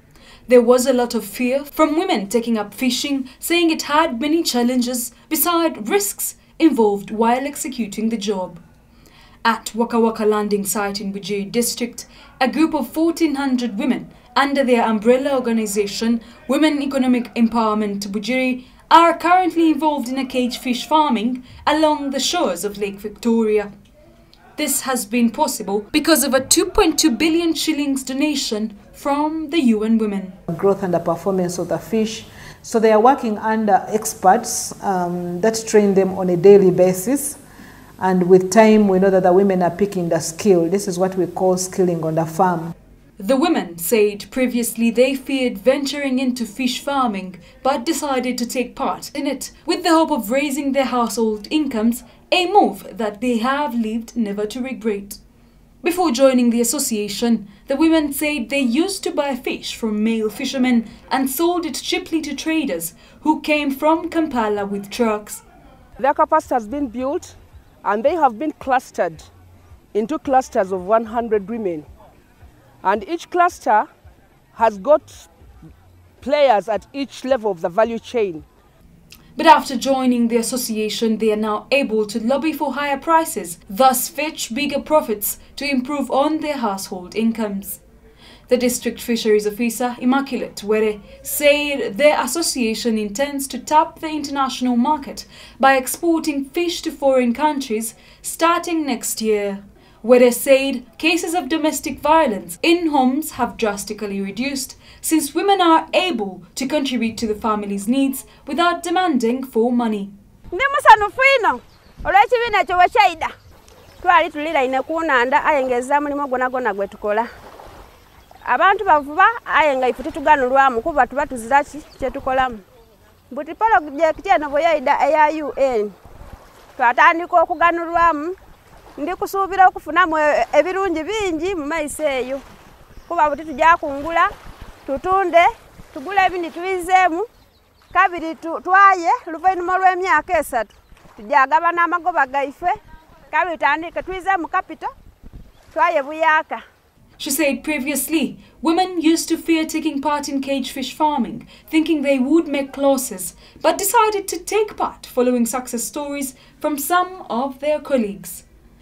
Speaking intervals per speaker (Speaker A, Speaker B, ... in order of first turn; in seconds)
Speaker A: 0.5-8.6, 9.4-23.7, 24.6-30.4, 43.2-55.2, 55.8-65.4, 79.3-87.8, 88.5-110.1, 147.2-158.4
Speaker B: 30.5-37.4, 38.0-42.7
Speaker C: 66.0-69.3, 69.9-71.9, 72.8-73.9, 74.5-75.3, 76.2-78.5
Speaker D: 110.5-113.3, 114.0-117.3, 118.5-122.6, 123.3-125.9, 126.8-128.3, 129.0-132.4, 133.1-134.3, 134.8-137.2, 137.9-142.8, 143.3-144.9, 145.7-146.6